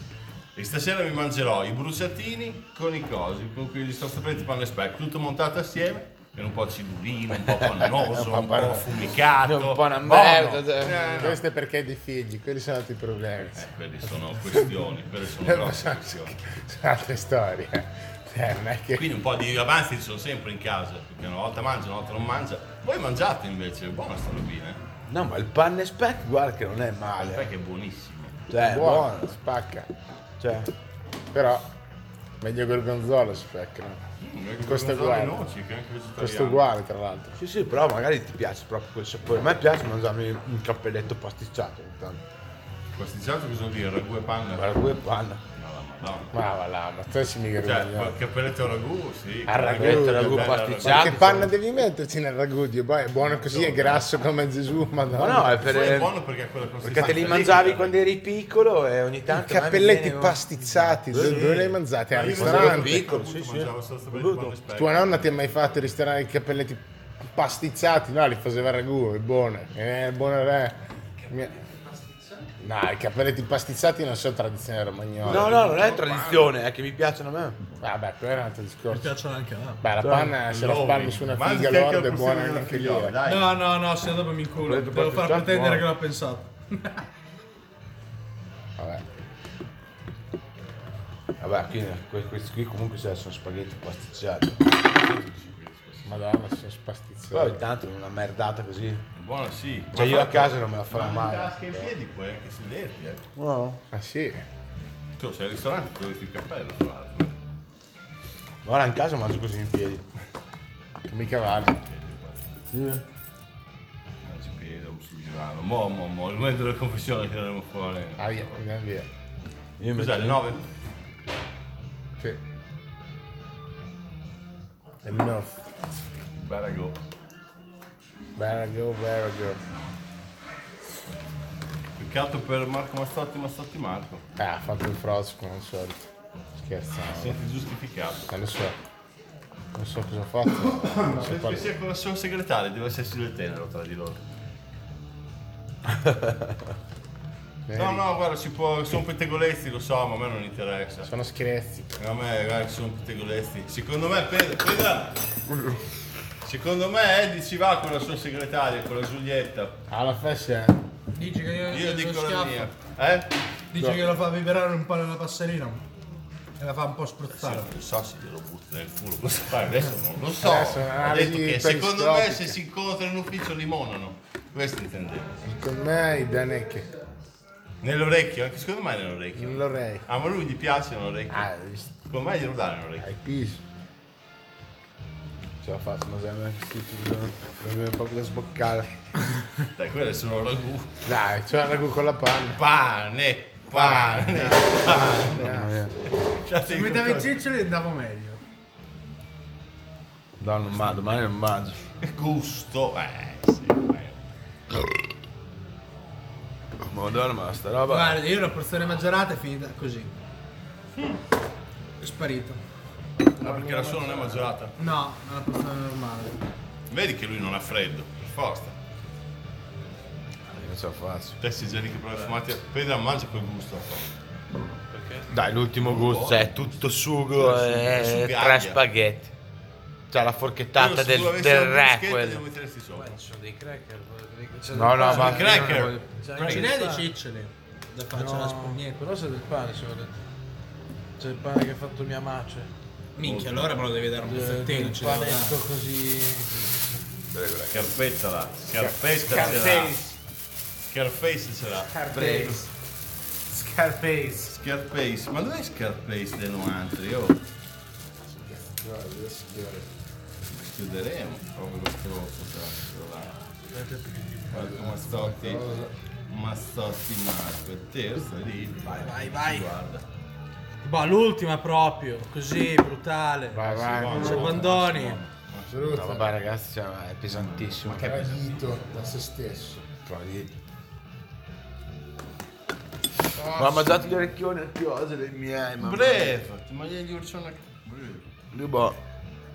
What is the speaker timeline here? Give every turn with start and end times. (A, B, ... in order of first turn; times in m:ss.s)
0:00.6-0:11.4 A
0:07.5-0:11.2 B
0:11.0-0:14.8 C
0:13.5-0:16.4 A
0:15.4-0:19.1 C
0:18.9-0:24.8 A
0:25.1-0:27.5 B
0:27.2-0:28.5 A
0:28.5-0:29.4 B
0:28.6-0:29.9 C
0:30.4-0:30.7 B
0:31.3-0:31.7 C
0:32.4-0:34.0 C
0:34.2-0:36.7 A
0:34.6-0:35.4 C
0:36.2-0:37.4 C
0:37.4-0:42.3 B
0:43.0-0:44.7 A
0:44.5-0:45.4 B
0:45.5-0:46.4 A
0:46.3-0:48.2 C
0:47.6-0:51.3 A
0:49.5-0:55.6 C
0:49.7-0:51.5 B
0:53.3-0:54.1 A
0:55.1-0:56.1 B
0:55.6-0:58.0 A
0:56.8-1:00.4 B
0:59.3-1:03.1 C
1:01.1-1:04.6 B
1:02.1-1:05.9 A
1:04.7-1:10.8 C
1:12.6-1:15.7 C
1:15.2-1:16.5 A
1:15.2-1:17.6 B
1:17.8-1:19.1 C
1:18.9-1:19.8 D
1:19.8-1:23.2 C
1:20.0-1:20.4 B
1:20.4-1:23.6 A
1:23.3-1:27.0 D
1:24.6-1:25.9 B
1:28.8-1:29.0 C
1:31.4-1:34.8 B
1:34.8-1:36.2 A
1:36.0-1:37.6 C
1:37.3-1:39.0 B
1:39.2-1:43.2 A
1:39.9-1:41.9 B
1:43.4-1:43.8 B
1:43.9-1:44.4 C
1:45.2-1:47.4 A
1:48.6-1:50.0 B
1:51.1-1:51.8 C
1:51.4-1:52.6 A
1:52.7-1:53.0 B
1:54.2-1:58.6 A
1:58.2-1:59.1 C
1:59.8-2:00.4 B
1:59.9-2:00.6 A
2:05.0-2:05.6 C
2:06.4-2:07.0 A
2:08.4-2:09.6 C
2:12.0-2:14.2 A
2:14.4-2:16.1 C
2:16.6-2:17.4 C
2:17.1-2:18.3 A
2:18.3-2:18.8 C
2:19.8-2:21.7 C
2:20.6-2:24.2 A
2:25.9-2:26.5 B
2:27.7-2:28.0 C
2:27.8-2:31.1 A
2:31.0-2:31.9 C
2:32.0-2:35.2 A
2:35.5-2:35.8 B
2:36.4-2:39.8 A
2:39.9-2:40.8 C
2:41.2-2:42.7 D
2:41.7-2:43.3 A
2:43.7-2:45.8 D
2:46.6-2:47.7 D
2:47.3-2:55.4 A
2:50.4-2:52.6 C
2:55.4-2:56.9 C
2:57.8-3:01.5 A
2:59.4-3:00.0 C
3:01.3-3:01.9 C
3:02.0-3:03.1 A
3:03.0-3:03.6 C
3:05.6-3:09.0 B
3:09.8-3:10.9 A
3:11.0-3:12.6 C
3:12.6-3:17.4 A
3:13.7-3:15.7 C
3:15.4-3:15.9 B
3:16.6-3:18.4 D
3:20.4-3:21.9 B
3:22.0-3:24.2 A
3:26.8-3:28.2 B
3:27.9-3:30.1 D
3:32.0-3:32.6 D
3:33.3-3:34.7 A
3:33.7-3:34.1 E
3:34.8-3:36.4 D
3:36.9-3:38.8 A
3:40.5-3:41.4 B
3:41.4-3:44.1 A
3:44.9-3:45.3 E
3:45.3-3:49.3 B
3:45.8-3:46.8 A
3:47.3-3:48.8 A
3:50.1-3:52.4 B
3:50.8-3:53.2 A
3:52.9-3:57.1 E
3:54.7-3:56.1 B
3:55.1-3:56.8 A
3:56.4-3:59.0 D
3:58.1-4:00.2 E
4:01.2-4:02.7 E
4:03.2-4:05.6 D
4:03.2-4:03.8 A
4:04.2-4:07.0 E
4:07.3-4:07.9 B
4:07.7-4:10.0 A
4:08.8-4:10.1 C
4:09.3-4:09.7 E
4:10.9-4:12.1 A
4:12.0-4:12.7 C
4:12.1-4:12.7 B
4:13.5-4:14.6 C
4:14.5-4:17.4 A
4:18.3-4:19.9 C
4:20.5-4:23.4 A
4:23.7-4:24.6 E
4:24.5-4:25.7 A
4:24.5-4:25.9 C
4:26.3-4:30.1 A
4:28.9-4:29.7 D
4:30.8-4:35.2 D
4:33.5-4:34.5 B
4:33.5-4:35.8 A
4:35.7-4:36.3 C
4:35.9-4:38.1 B
4:37.3-4:38.9 A
4:37.9-4:39.9 C
4:40.0-4:40.5 B
4:43.3-4:44.2 C
4:43.5-4:46.4 B
4:45.8-4:48.2 A
4:48.5-4:49.0 B